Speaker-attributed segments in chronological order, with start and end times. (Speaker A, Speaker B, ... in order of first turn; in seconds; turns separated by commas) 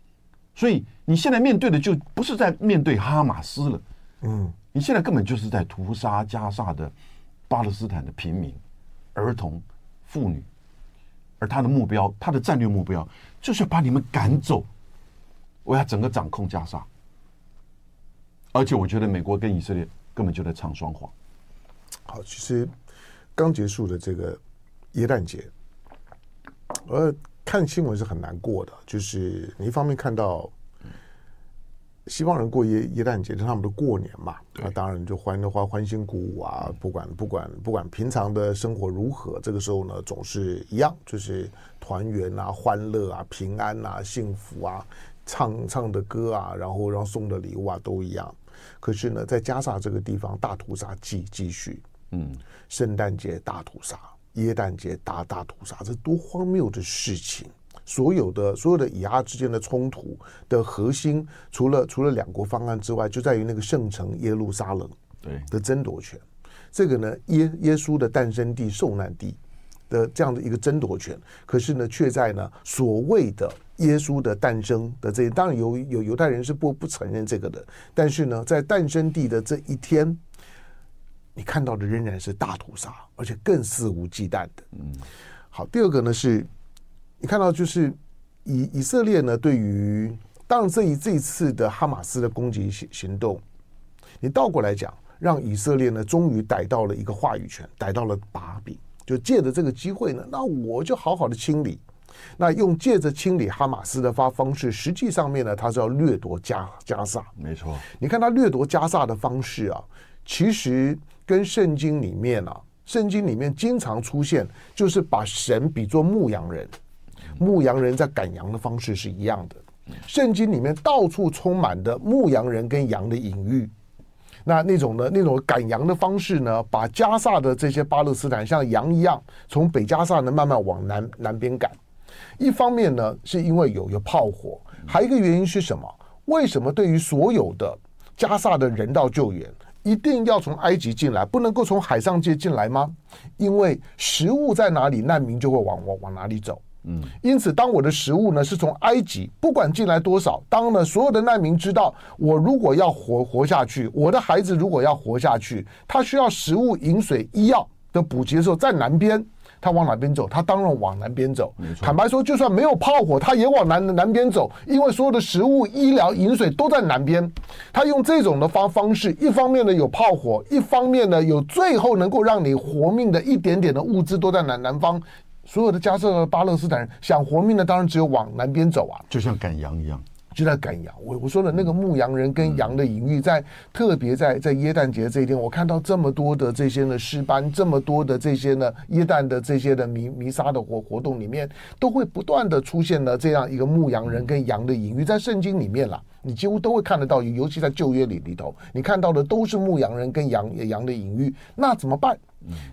Speaker A: 0.5-3.8, Speaker B: 4.2-4.5, Speaker A: 4.7-6.9, Speaker A: 7.5-8.6, Speaker A: 9.1-10.5, Speaker A: 11.4-14.7, Speaker A: 15.6-16.9, Speaker A: 18.5-21.1, Speaker B: 22.1-22.7, Speaker B: 23.4-24.4, Speaker B: 24.9-25.5, Speaker B: 26.9-30.5, Speaker B: 32.0-51.8, Speaker A: 52.1-52.4, Speaker B: 52.7-64.9, Speaker B: 65.5-69.4, Speaker B: 69.9-80.2, Speaker B: 81.3-84.6, Speaker B: 85.5-86.5, Speaker B: 87.2-93.4, Speaker B: 94.2-101.8, Speaker B: 102.4-107.3, Speaker A: 107.4-107.8, Speaker B: 107.9-116.7, Speaker B: 117.4-123.7, Speaker B: 124.4-131.8, Speaker B: 132.4-146.6, Speaker B: 147.2-179.1, Speaker A: 161.7-161.9, Speaker A: 179.1-180.0, Speaker B: 180.3-202.2